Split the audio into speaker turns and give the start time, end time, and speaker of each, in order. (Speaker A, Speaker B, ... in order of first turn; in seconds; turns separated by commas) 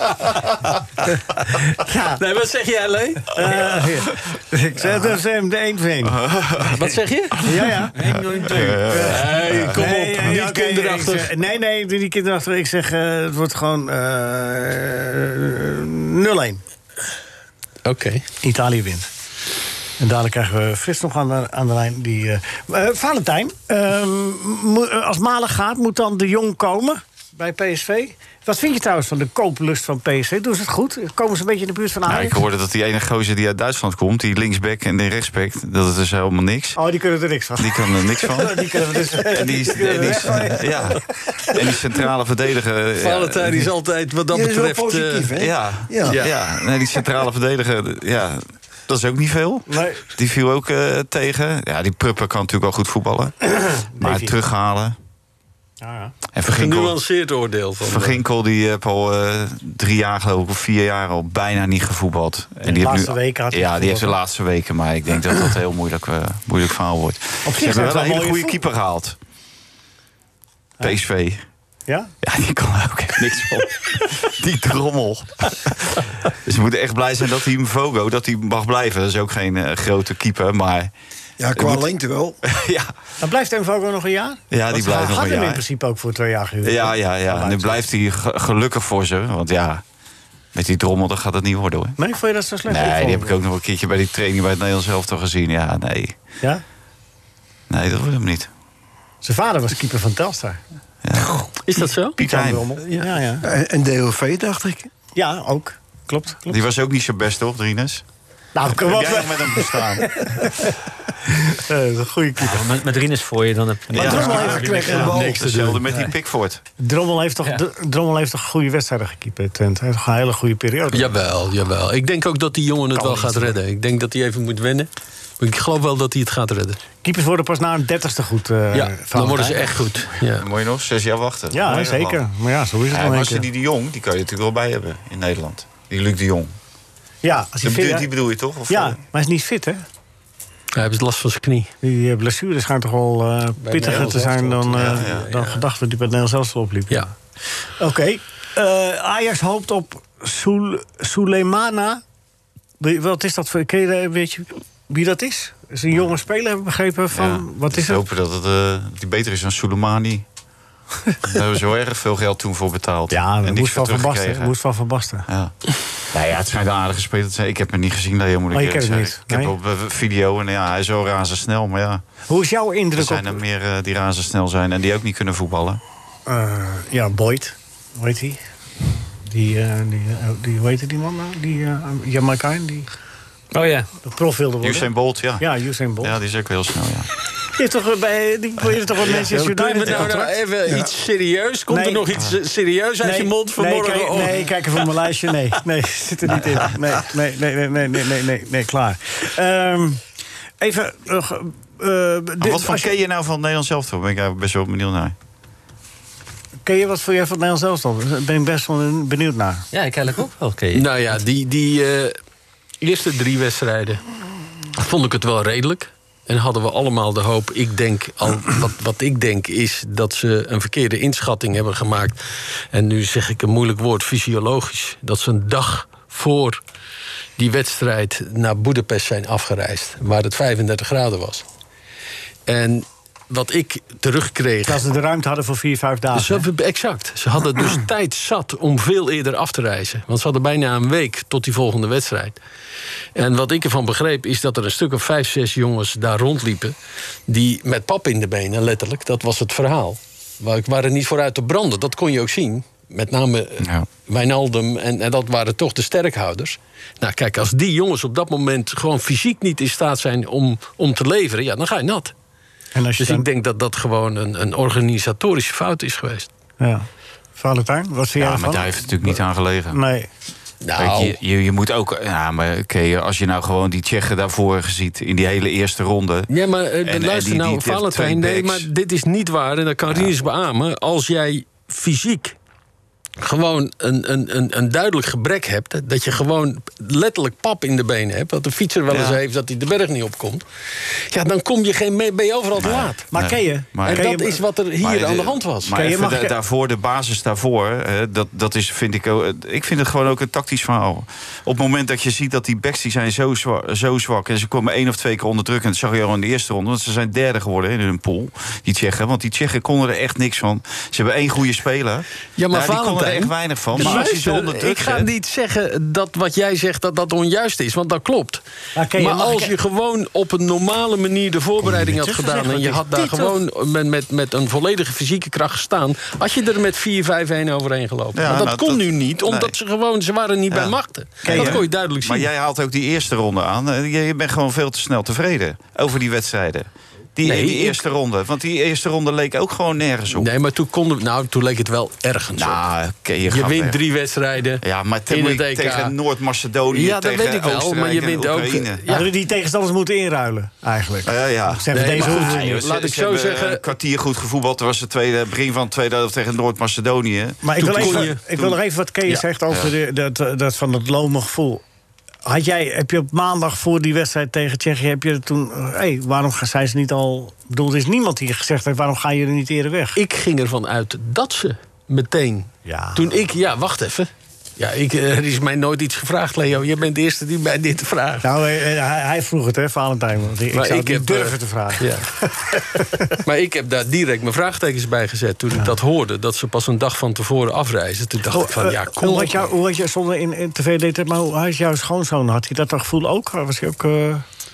Speaker A: 1.7-2.2, Speaker B: 2.2-3.4, Speaker A: 3.3-6.2, Speaker C: 6.0-9.9, Speaker B: 6.6-7.5, Speaker A: 7.4-16.6, Speaker D: 8.1-8.7, Speaker B: 8.9-11.3, Speaker B: 17.9-18.2, Speaker A: 18.4-19.1, Speaker A: 20.0-32.4, Speaker C: 32.1-36.8, Speaker A: 36.8-41.8, Speaker C: 37.6-43.7, Speaker E: 40.3-40.6, Speaker B: 43.0-45.3, Speaker E: 44.3-46.2, Speaker C: 45.4-53.4, Speaker B: 46.0-46.4, Speaker A: 49.7-50.0, Speaker A: 53.9-54.4, Speaker C: 54.0-55.0, Speaker A: 55.8-56.1, Speaker C: 56.4-57.0, Speaker B: 56.5-58.2, Speaker C: 57.8-69.2, Speaker A: 62.6-64.2, Speaker A: 67.4-68.6, Speaker C: 70.8-71.4, Speaker A: 71.9-72.1, Speaker C: 72.2-80.9, Speaker E: 81.4-82.4, Speaker C: 81.5-81.9, Speaker C: 82.4-82.9, Speaker A: 83.2-87.8, Speaker C: 84.5-85.6, Speaker C: 86.6-89.8, Speaker C: 90.5-92.0, Speaker A: 92.0-93.4, Speaker C: 92.7-96.2, Speaker C: 97.7-98.5, Speaker A: 99.2-100.6, Speaker C: 101.0-101.6, Speaker B: 101.6-102.2, Speaker A: 102.2-103.5, Speaker C: 102.2-102.7, Speaker B: 102.8-103.1, Speaker E: 103.4-104.9, Speaker A: 105.1-106.6, Speaker C: 106.5-108.0, Speaker A: 108.5-112.7, Speaker C: 108.7-110.5, Speaker D: 112.4-114.2, Speaker C: 113.9-116.6, Speaker A: 114.0-114.7, Speaker E: 114.0-115.5, Speaker B: 114.0-115.8, Speaker A: 116.8-121.2, Speaker B: 120.9-124.9, Speaker A: 122.9-123.6, Speaker B: 125.4-126.8, Speaker A: 127.0-129.9, Speaker B: 128.7-130.4, Speaker C: 130.3-132.2, Speaker A: 131.5-133.4, Speaker C: 132.9-136.6, Speaker A: 137.2-138.1, Speaker C: 137.6-139.0, Speaker A: 138.7-139.8, Speaker B: 140.8-141.7, Speaker A: 141.8-147.1, Speaker B: 143.6-145.6, Speaker C: 144.9-145.2, Speaker A: 147.6-152.0, Speaker A: 152.8-158.1, Speaker C: 157.1-160.2, Speaker C: 161.2-164.5, Speaker A: 163.1-165.3, Speaker C: 166.1-172.0, Speaker A: 168.5-169.5, Speaker A: 172.3-173.4, Speaker C: 172.9-175.8, Speaker A: 176.3-178.4, Speaker A: 179.2-182.9, Speaker D: 183.5-183.9, Speaker A: 184.0-186.2, Speaker C: 184.6-185.4, Speaker C: 186.0-187.1, Speaker A: 187.5-190.4, Speaker B: 189.1-194.5, Speaker C: 189.9-190.1, Speaker A: 191.7-192.1, Speaker A: 193.0-200.0, Speaker A: 200.6-202.9, Speaker C: 202.4-205.1, Speaker A: 206.6-209.6, Speaker D: 209.7-210.9, Speaker B: 210.7-212.2, Speaker B: 212.8-214.0, Speaker B: 214.8-222.2, Speaker B: 222.7-226.6, Speaker B: 227.4-231.4, Speaker B: 232.5-234.8, Speaker A: 234.6-236.5, Speaker B: 236.1-242.4, Speaker B: 243.1-246.7, Speaker B: 247.3-262.1, Speaker A: 262.7-263.3, Speaker B: 263.0-266.3, Speaker A: 266.6-270.1, Speaker C: 268.2-269.8, Speaker B: 270.6-271.2, Speaker C: 270.8-276.3, Speaker B: 276.3-282.4, Speaker C: 276.9-278.7, Speaker B: 283.2-290.4, Speaker C: 288.9-289.2, Speaker B: 291.1-293.1, Speaker C: 292.6-294.1, Speaker A: 293.1-294.4, Speaker B: 293.8-295.9, Speaker C: 294.8-315.1, Speaker A: 295.7-296.4, Speaker B: 312.4-318.4, Speaker A: 313.8-314.1, Speaker A: 318.8-319.5, Speaker B: 319.0-332.3, Speaker A: 321.6-323.4, Speaker C: 328.1-329.5, Speaker C: 330.5-340.3, Speaker A: 331.2-331.6, Speaker B: 337.2-337.8, Speaker B: 340.1-342.6, Speaker C: 342.3-343.8, Speaker B: 343.3-346.0, Speaker C: 344.6-349.0, Speaker B: 346.7-349.1, Speaker A: 348.9-352.6, Speaker C: 351.1-358.6, Speaker B: 351.7-353.7, Speaker A: 357.4-361.6, Speaker B: 357.6-358.2, Speaker A: 362.2-370.0, Speaker B: 369.9-378.3, Speaker A: 372.6-373.1, Speaker A: 378.2-383.2, Speaker B: 380.5-382.1, Speaker B: 383.1-389.5, Speaker A: 388.3-394.2